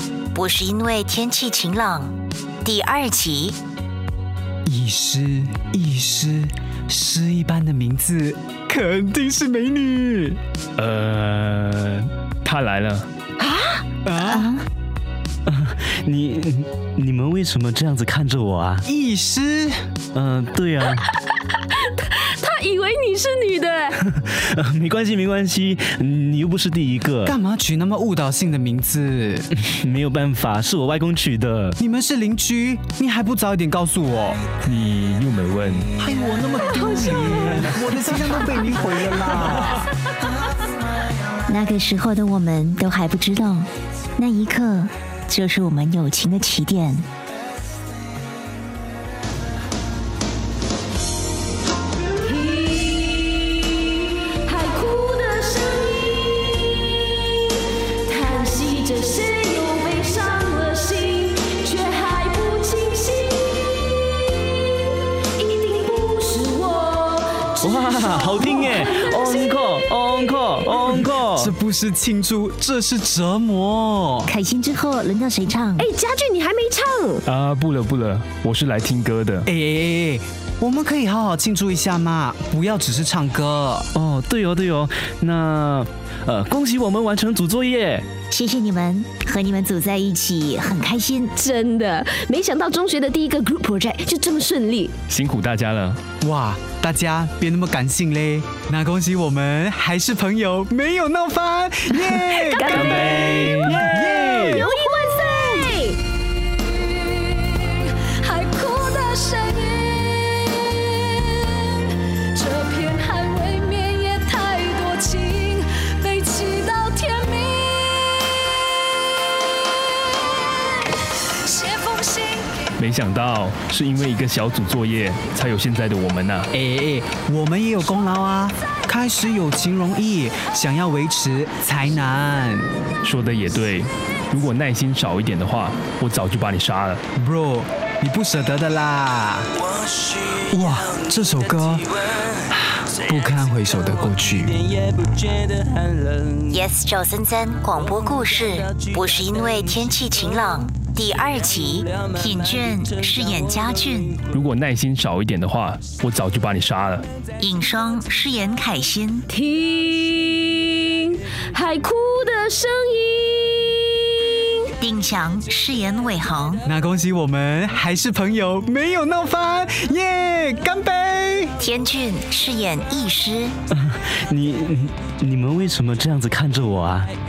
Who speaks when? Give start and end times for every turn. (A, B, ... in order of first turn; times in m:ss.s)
0:00.3-0:03.6 A
0:04.7-0:10.4 B
0:10.8-0:13.1 C
0:14.0-0:14.5 B
0:14.3-0:14.6 A
0:15.5-0:18.8 D
0:18.8-0:19.8 B
0:20.1-0:21.0 D
0:21.8-0:24.0 E
0:24.0-0:27.4 D
0:27.2-0:29.5 B
0:29.6-0:31.8 D
0:31.8-0:34.4 B
0:34.6-0:35.9 C
0:36.0-0:39.8 B
0:36.8-0:37.5 E
0:41.5-0:47.1 A
0:52.2-0:57.2 E
0:58.1-1:03.5 E
1:05.4-1:09.6 E
1:07.6-1:11.5 D
1:10.9-1:14.3 B
1:14.3-1:15.9 A
1:15.8-1:17.2 E
1:17.2-1:19.5 C
1:19.5-1:23.9 B
1:24.0-1:28.1 D
1:28.3-1:31.3 A
1:31.4-1:35.0 E
1:35.1-1:36.0 C
1:36.2-1:44.7 B
1:42.3-1:46.0 E
1:42.7-1:43.4 C
1:42.9-1:43.3 D
1:47.4-1:58.1 E
2:01.4-2:02.5 E
2:02.8-2:06.5 C
2:06.5-2:12.7 B
2:13.0-2:17.0 C
2:17.2-2:19.5 B
2:20.4-2:24.6 B
2:26.4-2:34.2 A
2:34.3-2:37.1 C
2:37.4-2:39.3 A
2:39.3-2:44.7 E
2:44.8-2:46.6 A
2:46.6-2:51.5 B
2:51.6-2:53.5 A
2:53.7-2:57.1 D